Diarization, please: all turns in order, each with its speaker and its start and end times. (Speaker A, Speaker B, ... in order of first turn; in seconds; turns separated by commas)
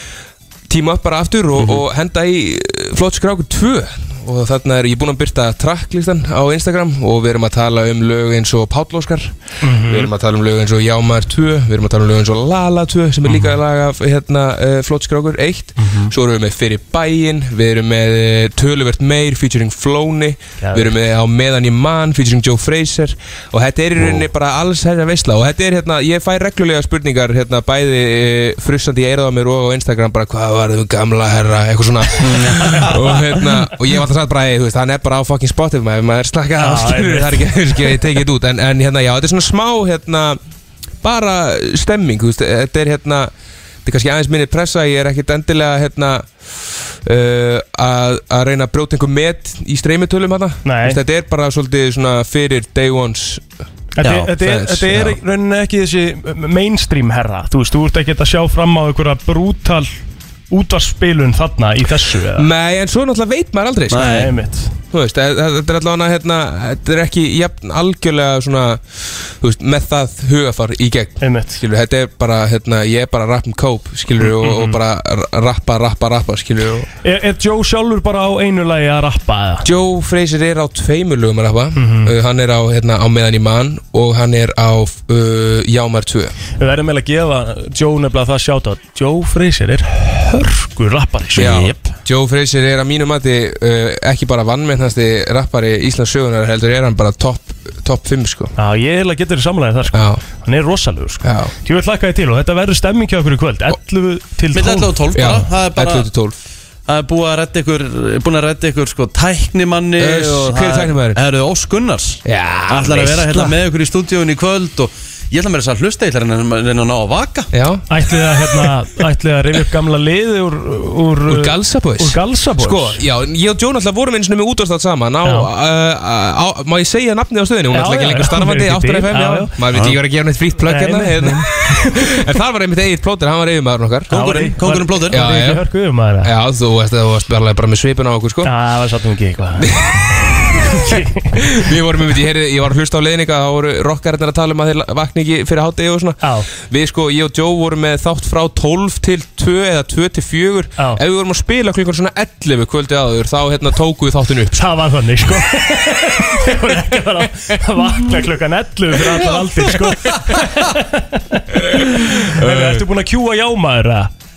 Speaker A: 0.7-40.4, Speaker B: 1.6-1.8, Speaker C: 9.6-10.1, Speaker C: 13.2-13.6, Speaker C: 15.8-16.1, Speaker C: 20.6-20.9, Speaker C: 32.6-32.9, Speaker C: 36.6-38.0, Speaker A: 41.0-43.3, Speaker A: 43.8-46.3, Speaker A: 47.0-53.4, Speaker C: 50.6-51.0, Speaker C: 54.0-62.5, Speaker B: 54.0-54.3, Speaker A: 54.4-55.2, Speaker A: 62.3-64.3, Speaker B: 63.9-64.3, Speaker C: 63.9-64.7, Speaker A: 64.9-76.9, Speaker C: 71.2-71.6, Speaker C: 74.2-74.8, Speaker C: 77.0-79.6, Speaker A: 79.6-86.3, Speaker C: 81.8-82.1, Speaker C: 86.6-91.6, Speaker A: 91.3-98.5, Speaker B: 91.4-91.9, Speaker C: 98.5-105.0, Speaker A: 99.9-100.2, Speaker A: 101.2-101.5, Speaker B: 104.5-106.1, Speaker A: 105.1-106.4, Speaker B: 106.9-117.5, Speaker A: 110.0-111.2, Speaker A: 112.2-113.5, Speaker A: 117.5-117.8, Speaker C: 117.9-123.0, Speaker A: 121.3-134.1, Speaker C: 125.2-125.5, Speaker C: 127.7-129.5, Speaker C: 130.6-131.9, Speaker C: 134.1-136.3, Speaker B: 134.1-135.2, Speaker A: 135.1-135.6, Speaker A: 136.2-138.5, Speaker C: 138.4-139.7, Speaker A: 139.6-156.5, Speaker C: 140.7-141.4, Speaker C: 146.2-146.5, Speaker C: 154.5-164.1, Speaker A: 157.2-158.2, Speaker A: 159.0-160.4, Speaker A: 161.6-162.8